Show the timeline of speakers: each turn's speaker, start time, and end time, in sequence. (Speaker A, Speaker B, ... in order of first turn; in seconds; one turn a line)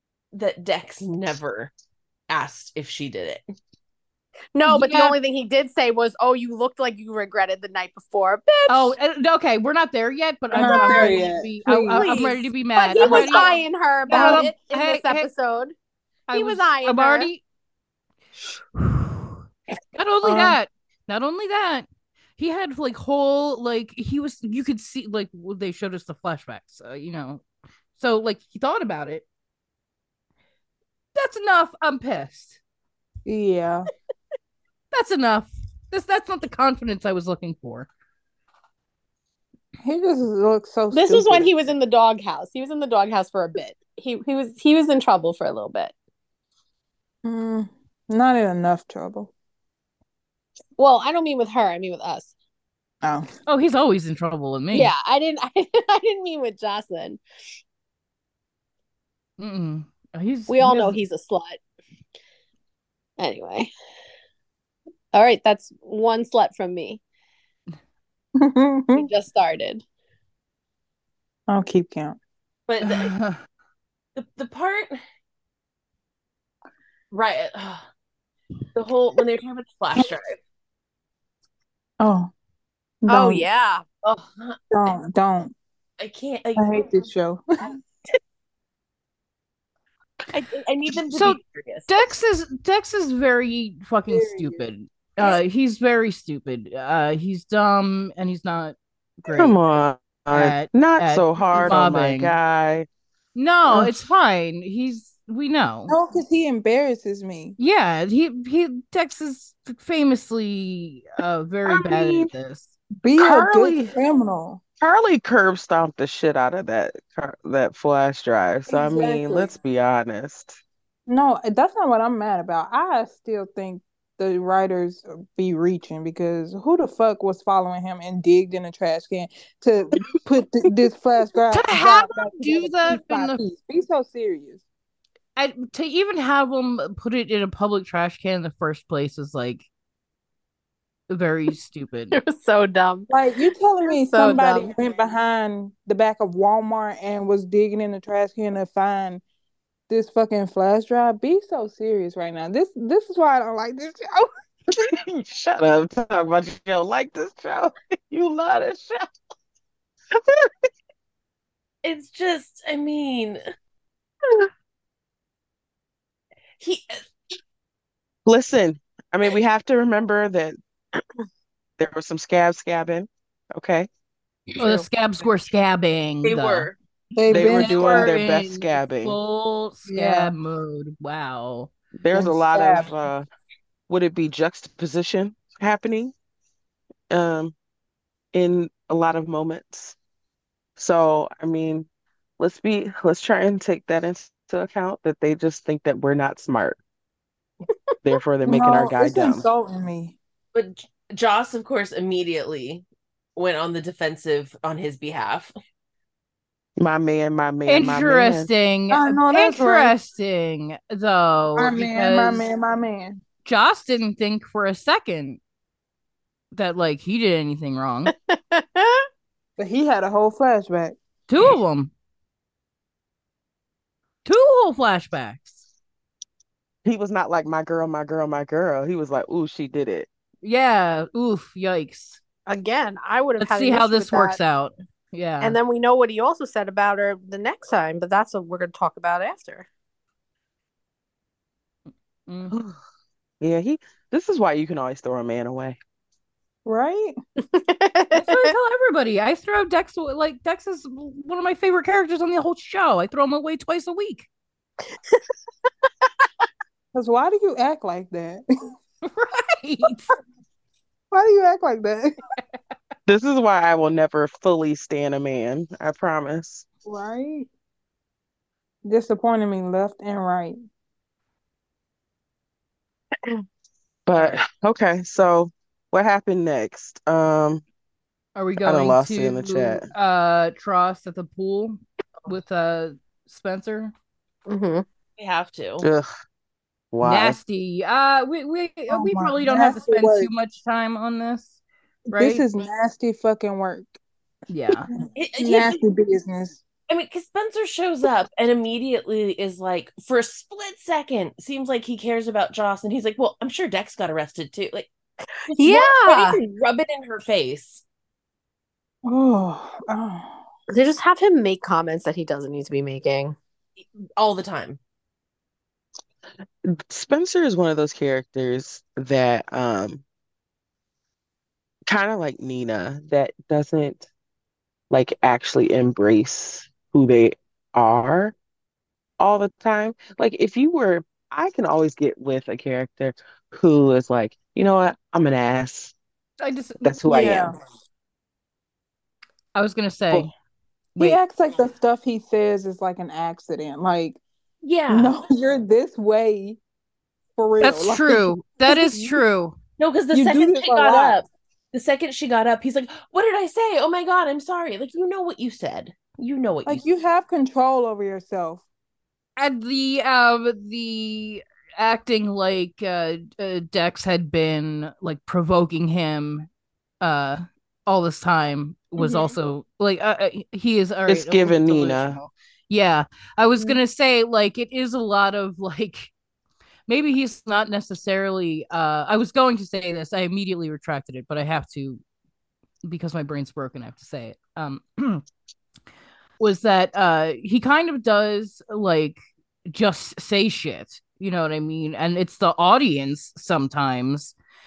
Speaker A: 0.3-1.7
Speaker A: 2.3-3.4
Speaker B: 4.5-8.9
Speaker C: 4.7-5.1
Speaker C: 8.7-13.5
Speaker D: 10.5-12.2
Speaker B: 10.6-11.2
Speaker A: 12.0-12.2
Speaker B: 12.0-15.7
Speaker A: 13.0-13.6
Speaker C: 14.1-15.3
Speaker D: 14.1-14.5
Speaker C: 16.3-17.4
Speaker B: 16.3-17.3
Speaker C: 18.8-19.4
Speaker C: 19.9-27.4
Speaker D: 20.2-20.6
Speaker C: 28.0-29.3
Speaker C: 31.1-32.6
Speaker D: 33.3-33.9
Speaker C: 34.9-37.9
Speaker D: 39.8-41.5
Speaker B: 40.9-45.9
Speaker D: 47.2-49.3
Speaker B: 50.8-52.3
Speaker D: 53.0-53.3
Speaker C: 53.5-54.9
Speaker B: 54.7-57.2
Speaker C: 59.4-61.0
Speaker B: 60.5-61.6
Speaker B: 63.2-63.7
Speaker B: 65.1-67.0
Speaker D: 68.4-69.1
Speaker B: 69.0-69.8
Speaker D: 71.5-72.2
Speaker A: 72.7-73.1
Speaker C: 72.8-73.4
Speaker A: 74.2-75.0
Speaker A: 77.1-77.9
Speaker A: 78.8-80.3
Speaker D: 82.0-82.3
Speaker D: 83.0-83.5
Speaker B: 83.1-83.8
Speaker A: 84.0-84.6
Speaker D: 84.7-85.5
Speaker A: 86.0-86.8
Speaker D: 86.5-87.7
Speaker A: 90.3-91.9
Speaker C: 91.1-99.6
Speaker D: 94.1-94.6
Speaker E: 99.3-102.9
Speaker C: 100.3-102.3
Speaker C: 103.3-105.9
Speaker D: 105.9-107.5
Speaker C: 107.6-112.7
Speaker E: 111.7-112.3
Speaker D: 113.0-114.6
Speaker E: 113.2-114.0
Speaker E: 114.8-120.6
Speaker D: 118.7-119.5
Speaker D: 121.1-134.6
Speaker C: 131.5-133.4
Speaker C: 135.4-139.7
Speaker C: 141.1-142.2
Speaker B: 142.1-143.1
Speaker D: 143.1-149.2
Speaker B: 143.9-144.7
Speaker D: 149.9-154.3
Speaker E: 154.7-159.1
Speaker E: 160.1-160.5
Speaker A: 161.8-163.4
Speaker A: 166.6-167.0
Speaker E: 168.3-170.6
Speaker E: 171.8-173.9
Speaker C: 174.6-176.7
Speaker A: 176.2-176.8
Speaker D: 177.2-178.2
Speaker C: 177.3-181.7
Speaker E: 177.3-179.2
Speaker D: 179.9-180.3
Speaker E: 182.0-183.3
Speaker D: 182.1-182.9
Speaker E: 183.9-186.1
Speaker E: 187.1-187.5
Speaker E: 188.3-190.0
Speaker E: 190.8-191.9
Speaker E: 192.4-196.8
Speaker E: 198.0-199.5
Speaker D: 198.4-200.2
Speaker A: 200.5-202.8
Speaker A: 203.4-205.5
Speaker E: 206.8-208.5
Speaker C: 207.7-212.4
Speaker D: 208.9-209.9
Speaker D: 211.6-213.2
Speaker C: 213.4-215.4
Speaker C: 216.5-218.1
Speaker B: 218.1-219.1
Speaker D: 219.6-221.0
Speaker C: 221.3-221.9
Speaker C: 224.2-225.6
Speaker E: 226.8-230.1
Speaker C: 230.4-232.2
Speaker B: 232.5-234.4
Speaker C: 233.4-235.6
Speaker B: 235.4-239.7
Speaker C: 242.3-242.5
Speaker E: 242.5-242.8
Speaker E: 243.4-245.8
Speaker D: 246.7-247.2
Speaker B: 247.5-248.5
Speaker C: 248.1-254.3
Speaker D: 256.9-258.4
Speaker C: 259.0-260.1
Speaker D: 261.1-262.2
Speaker E: 263.1-266.7
Speaker D: 266.9-267.5
Speaker D: 268.9-270.6
Speaker E: 274.1-277.6
Speaker C: 278.4-283.9
Speaker E: 278.6-279.9
Speaker B: 284.5-284.9
Speaker A: 285.2-285.9
Speaker E: 285.8-286.1
Speaker E: 286.9-287.4
Speaker C: 287.0-291.6
Speaker D: 288.9-290.3
Speaker C: 292.1-292.4
Speaker D: 292.1-294.0
Speaker C: 294.5-294.9
Speaker D: 295.0-296.6
Speaker A: 295.1-295.8
Speaker A: 296.9-304.9
Speaker A: 305.5-307.8
Speaker B: 305.5-306.4
Speaker D: 309.1-310.4
Speaker B: 310.7-313.4
Speaker A: 314.2-314.8
Speaker E: 316.6-320.0
Speaker E: 321.9-324.1
Speaker E: 324.9-328.4
Speaker E: 329.2-335.9
Speaker C: 336.4-337.0
Speaker E: 336.8-337.5
Speaker D: 337.1-337.6
Speaker C: 339.6-340.3
Speaker D: 341.0-344.2
Speaker A: 344.6-345.1
Speaker D: 344.9-346.6
Speaker D: 347.4-349.2
Speaker C: 347.6-349.6
Speaker A: 349.8-356.8
Speaker D: 350.1-351.2
Speaker D: 356.7-358.6
Speaker C: 359.4-366.5
Speaker C: 367.0-376.1
Speaker E: 371.1-372.2
Speaker C: 376.9-382.0
Speaker C: 382.8-385.2
Speaker C: 386.4-394.4